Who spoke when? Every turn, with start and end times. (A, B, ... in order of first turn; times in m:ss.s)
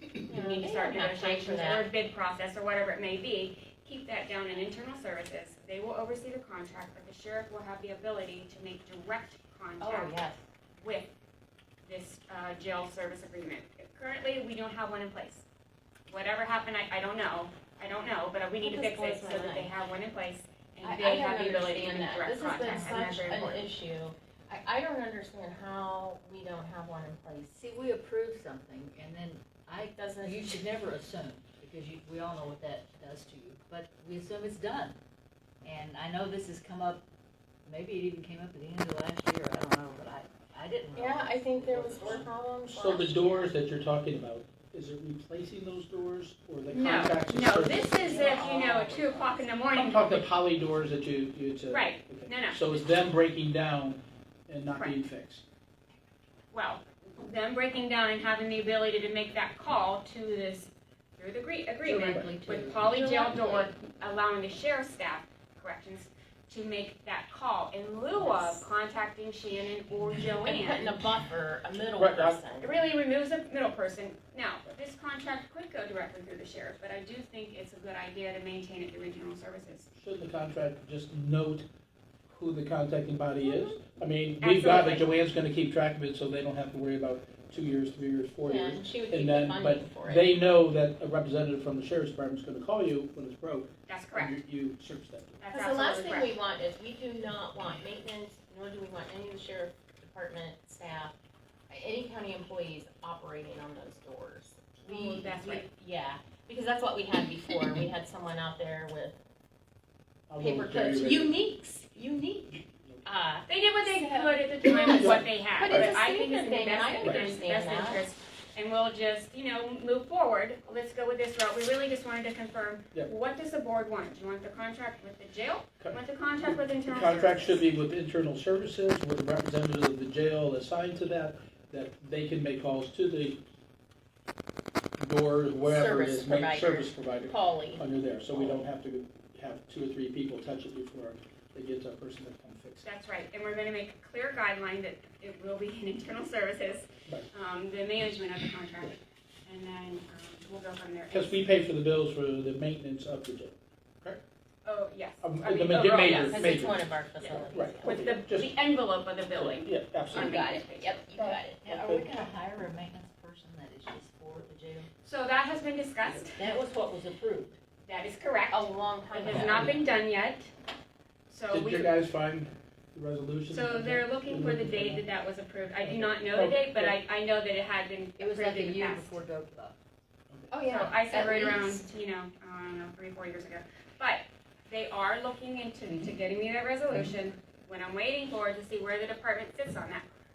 0:00.2-0:10.1 A
0:00.3-0:01.9 B
0:09.8-0:10.4 B
0:10.8-0:11.1 A
0:11.8-0:15.4 A
0:16.1-0:23.7 A
0:18.6-0:19.7 B
0:20.8-0:27.5 B
0:22.7-0:23.0 C
0:27.5-0:35.0 C
0:29.9-0:30.6 B
0:35.6-0:37.0 C
0:37.7-0:42.3 C
0:41.0-0:43.5 B
0:42.7-0:48.2 D
0:46.7-0:50.3 A
0:48.0-0:49.6 B
0:49.7-0:55.4 D
0:51.7-0:52.6 A
0:54.7-0:55.0 A
0:56.5-1:11.0 A
1:01.8-1:03.2 C
1:02.0-1:02.4 D
1:03.0-1:03.7 B
1:08.2-1:08.6 B
1:10.4-1:12.8 B
1:12.0-1:12.4 D
1:12.6-1:19.9 A
1:20.0-1:21.6 D
1:22.3-1:35.4 D
1:24.4-1:25.1 A
1:28.4-1:30.2 B
1:33.9-1:34.3 A
1:35.4-1:36.4 A
1:35.5-1:41.2 B
1:41.7-1:49.2 B
1:44.8-1:45.6 A
1:50.3-1:51.4 D
1:50.4-1:55.0 B
1:52.8-1:53.1 D
1:53.5-2:07.6 A
1:55.0-1:55.9 D
1:55.6-1:58.1 B
1:57.0-1:57.4 D
2:06.8-2:13.4 D
2:15.0-2:22.9 D
2:15.7-2:17.8 B
2:22.8-2:31.4 A
2:31.1-2:34.2 D
2:34.6-2:36.5 A
2:35.2-2:38.5 D
2:36.0-2:38.0 B
2:37.8-2:41.0 A
2:39.3-2:40.5 D
2:40.1-2:41.6 B
2:41.2-2:44.9 C
2:41.6-2:42.1 D
2:45.0-2:46.5 A
2:46.3-2:47.6 C
2:47.8-2:50.5 A
2:48.5-2:49.7 B
2:49.3-2:49.8 D
2:51.3-2:51.9 A
2:51.5-2:55.0 D
2:53.5-2:59.2 A
2:55.8-2:57.0 D
2:58.2-2:59.8 C
3:00.5-3:01.8 B
3:00.7-3:10.1 A